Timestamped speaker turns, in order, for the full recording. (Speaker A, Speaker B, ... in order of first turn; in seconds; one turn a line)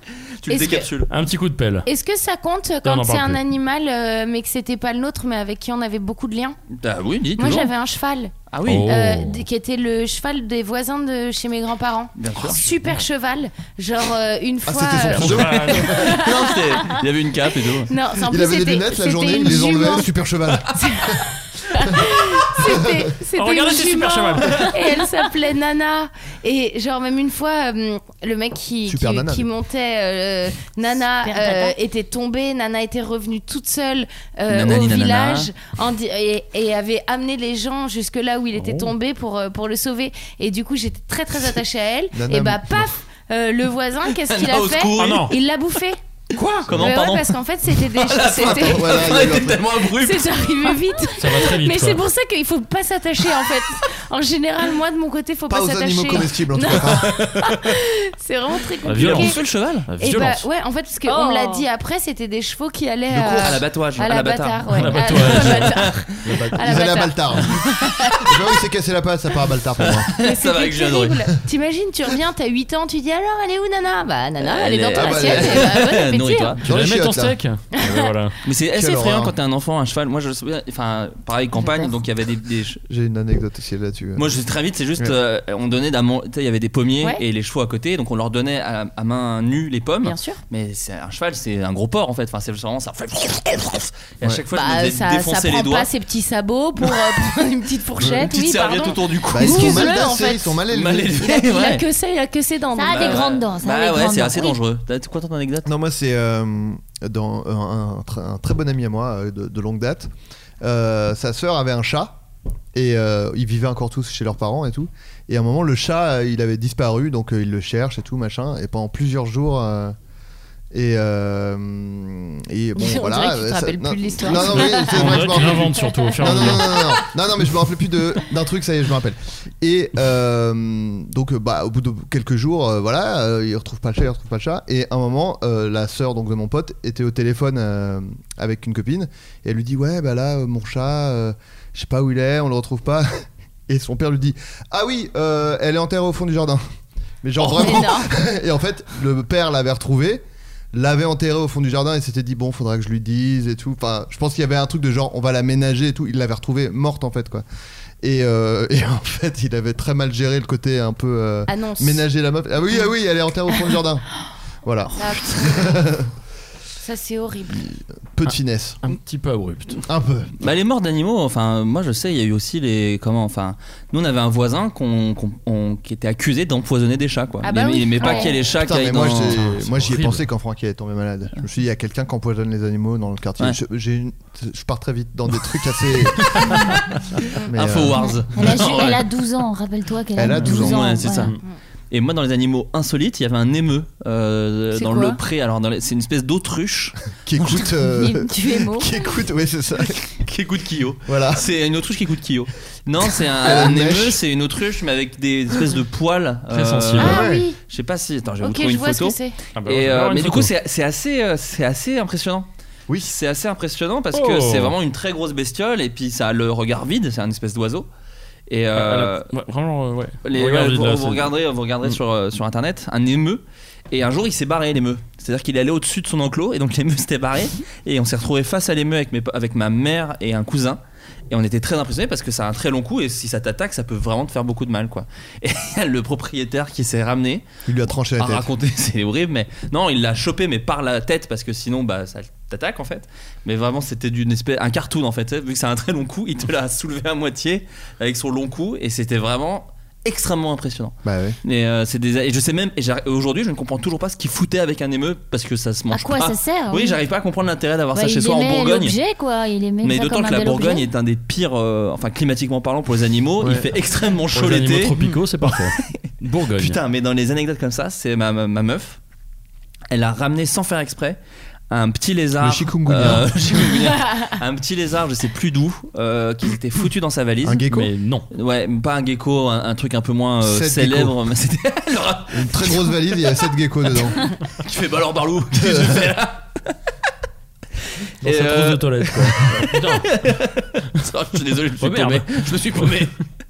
Speaker A: 0.4-1.1
Speaker B: 0.5-0.9
Speaker C: 1.1-1.9
Speaker B: 1.9-6.6
Speaker C: 2.8-3.4
Speaker A: 6.7-7.7
Speaker B: 7.4-8.3
Speaker A: 8.5-8.9
Speaker C: 8.7-9.4
Speaker B: 8.9-16.9
Speaker A: 12.2-12.6
Speaker D: 14.7-16.3
Speaker C: 15.1-16.0
Speaker A: 15.2-17.9
Speaker B: 17.9-20.1
Speaker D: 18.2-21.2
Speaker B: 20.7-46.0
Speaker D: 22.6-23.0
Speaker C: 23.4-24.8
Speaker D: 28.9-29.5
Speaker E: 31.2-31.8
Speaker A: 34.5-35.5
Speaker C: 38.5-38.9
Speaker D: 42.1-43.0
Speaker A: 44.1-45.3
Speaker C: 45.0-45.3
Speaker C: 46.4-46.8
Speaker A: 46.7-50.7
Speaker B: 46.7-49.3
Speaker D: 48.5-49.7
Speaker B: 49.8-59.5
Speaker C: 51.2-52.0
Speaker D: 55.5-57.1
Speaker A: 56.1-57.7
Speaker C: 58.9-60.5
Speaker A: 58.9-59.9
Speaker B: 60.0-68.4
Speaker E: 61.0-61.7
Speaker A: 63.1-66.0
Speaker D: 63.1-63.6
Speaker C: 64.7-65.9
Speaker D: 66.3-67.6
Speaker D: 68.2-70.1
Speaker A: 69.8-71.2
Speaker B: 70.2-76.6
Speaker A: 74.4-76.6
Speaker D: 74.9-75.8
Speaker C: 76.6-78.4
Speaker D: 76.7-77.4
Speaker B: 77.8-78.1
Speaker A: 78.5-82.8
Speaker D: 78.7-79.4
Speaker B: 81.6-81.9
Speaker D: 82.9-84.3
Speaker A: 84.2-95.9
Speaker B: 90.0-90.4
Speaker B: 94.5-100.5
Speaker A: 98.0-100.0
Speaker D: 99.3-101.2
Speaker A: 100.7-101.8
Speaker B: 101.2-103.2
Speaker E: 102.7-104.6
Speaker A: 102.9-105.7
Speaker D: 105.7-112.2
Speaker D: 112.7-120.0
Speaker D: 120.7-146.6
Speaker B: 122.8-126.5
Speaker C: 124.9-126.9
Speaker D: 147.2-157.4
Speaker B: 147.4-148.1
Speaker D: 158.0-164.1
Speaker B: 161.5-162.1
Speaker D: 164.6-166.1
Speaker B: 165.0-165.9
Speaker B: 166.8-167.7
Speaker D: 167.6-168.8
Speaker C: 168.8-169.8
Speaker D: 169.9-170.3
Speaker A: 170.4-179.4
Speaker B: 177.4-178.5
Speaker D: 178.5-186.5
Speaker C: 179.2-180.2
Speaker D: 187.4-188.1
Speaker A: 187.5-189.1
Speaker E: 188.3-191.3
Speaker D: 190.2-191.0
Speaker A: 190.4-191.3
Speaker A: 191.9-197.7
Speaker B: 194.8-195.2
Speaker D: 197.2-200.0
Speaker E: 197.9-198.9
Speaker A: 200.1-212.5
Speaker D: 201.1-201.5
Speaker D: 203.4-204.2
Speaker C: 206.5-207.2
Speaker B: 207.0-207.6
Speaker D: 207.0-207.5
Speaker B: 208.4-209.4
Speaker C: 209.6-210.5
Speaker A: 213.0-217.9
Speaker C: 214.1-214.7
Speaker A: 218.5-219.3
Speaker C: 218.7-221.3
Speaker A: 220.2-237.4
Speaker D: 237.7-238.5
Speaker A: 238.2-259.0
Speaker D: 251.0-251.4
Speaker E: 255.9-257.0
Speaker E: 257.9-260.9
Speaker A: 259.8-266.0
Speaker D: 263.4-263.7
Speaker C: 264.3-266.8
Speaker A: 266.6-269.0
Speaker A: 269.9-271.2
Speaker A: 271.7-277.6
Speaker D: 272.4-273.9
Speaker D: 277.4-277.9
Speaker C: 277.7-278.3
Speaker A: 278.3-282.9
Speaker D: 280.4-281.2
Speaker D: 282.3-284.2
Speaker A: 284.6-286.4
Speaker D: 285.5-286.2
Speaker C: 288.2-290.1
Speaker A: 288.2-293.1
Speaker C: 291.8-293.1